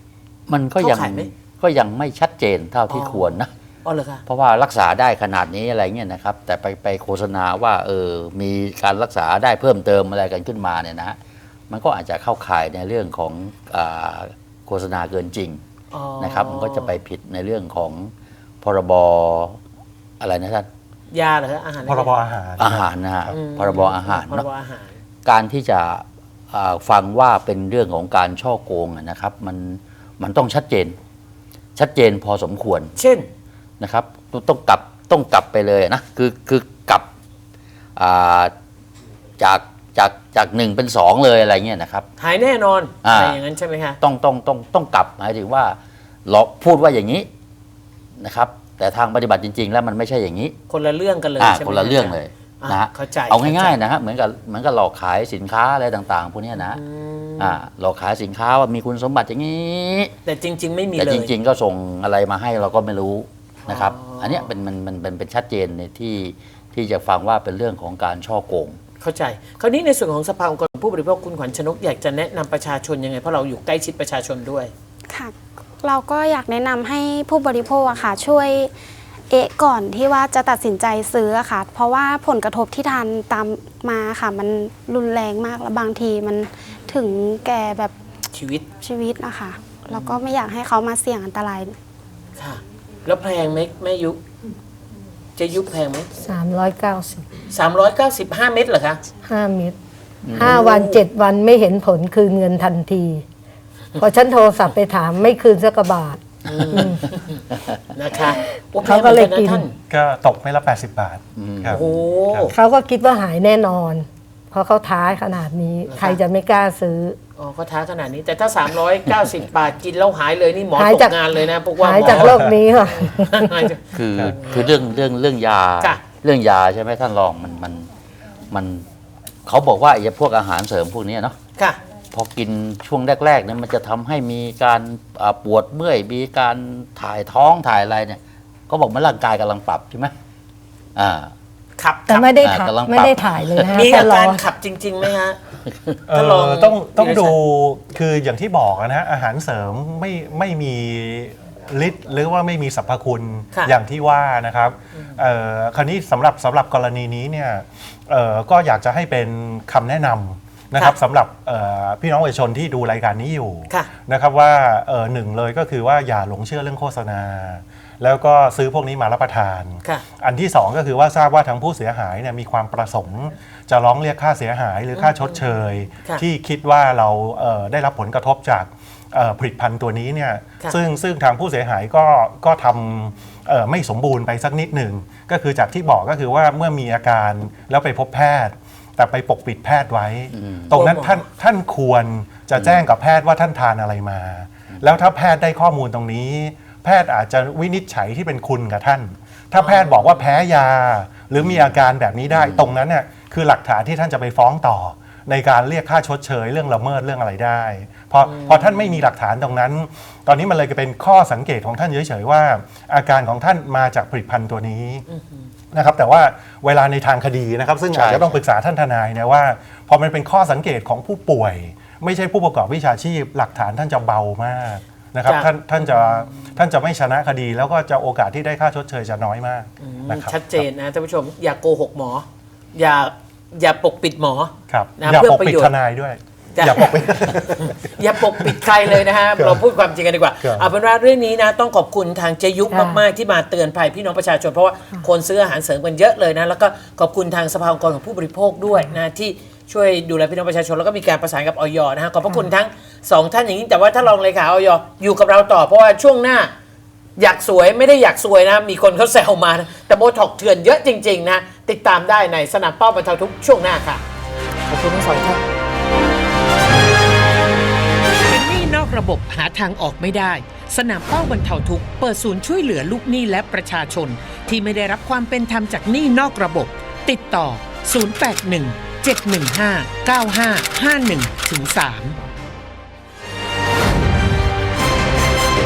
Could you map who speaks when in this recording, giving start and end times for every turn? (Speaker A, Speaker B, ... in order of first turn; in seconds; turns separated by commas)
Speaker A: 0.5-3.5, Speaker B: 0.8-1.3, Speaker B: 2.9-4.2, Speaker A: 4.3-11.2, Speaker A: 11.7-15.6, Speaker B: 15.9-16.9, Speaker A: 16.2-19.6, Speaker A: 20.2-20.7, Speaker B: 21.1-22.1, Speaker C: 21.9-23.4, Speaker A: 22.6-24.5, Speaker B: 23.3-24.9, Speaker A: 25.2-31.0, Speaker A: 31.8-32.9, Speaker B: 33.0-33.3, Speaker A: 33.8-37.1, Speaker A: 38.0-38.5, Speaker A: 39.4-42.1, Speaker B: 42.2-44.0, Speaker A: 43.0-43.4, Speaker A: 44.0-47.3, Speaker A: 48.2-50.6, Speaker B: 50.7-53.8, Speaker A: 51.4-56.8, Speaker B: 56.6-57.6, Speaker A: 57.4-60.1, Speaker B: 60.2-61.3, Speaker A: 61.0-68.8, Speaker B: 63.7-64.5, Speaker B: 69.0-74.7, Speaker D: 75.1-78.7, Speaker D: 79.3-87.9, Speaker B: 88.3-88.7, Speaker D: 88.8-91.8, Speaker B: 89.9-90.2, Speaker B: 92.4-94.2, Speaker B: 95.4-96.1, Speaker E: 96.2-97.3, Speaker B: 97.5-99.0, Speaker E: 99.2-99.8, Speaker A: 100.2-100.5, Speaker E: 100.3-103.2, Speaker B: 100.4-101.0, Speaker E: 104.0-106.2, Speaker B: 106.5-109.7, Speaker E: 106.7-107.0, Speaker E: 108.8-109.7, Speaker C: 109.9-111.8, Speaker A: 111.4-112.0, Speaker B: 111.7-112.5, Speaker E: 112.5-117.2, Speaker B: 115.9-116.2, Speaker B: 117.4-124.6, Speaker E: 120.8-121.2, Speaker E: 121.8-123.7, Speaker A: 123.9-127.9, Speaker A: 128.5-128.9, Speaker A: 129.4-131.4, Speaker A: 132.1-140.1, Speaker A: 140.9-141.3, Speaker B: 141.8-142.3, Speaker E: 142.1-144.4, Speaker A: 142.4-143.9, Speaker B: 143.7-145.4, Speaker A: 145.7-146.0, Speaker C: 146.1-215.1, Speaker B: 146.1-147.4, Speaker B: 174.9-175.4, Speaker A: 190.3-190.8, Speaker B: 190.7-191.2, Speaker B: 199.6-200.3, Speaker A: 201.4-201.7, Speaker A: 202.3-202.8, Speaker B: 208.2-209.0, Speaker B: 215.1-215.4, Speaker C: 215.7-230.4, Speaker A: 217.9-218.4, Speaker B: 225.3-226.3, Speaker B: 229.8-235.7, Speaker C: 234.7-238.6, Speaker B: 236.6-256.5, Speaker C: 239.3-239.6, Speaker C: 240.4-240.7, Speaker E: 242.7-243.0, Speaker B: 257.2-264.0, Speaker B: 264.7-265.4, Speaker B: 268.2-282.2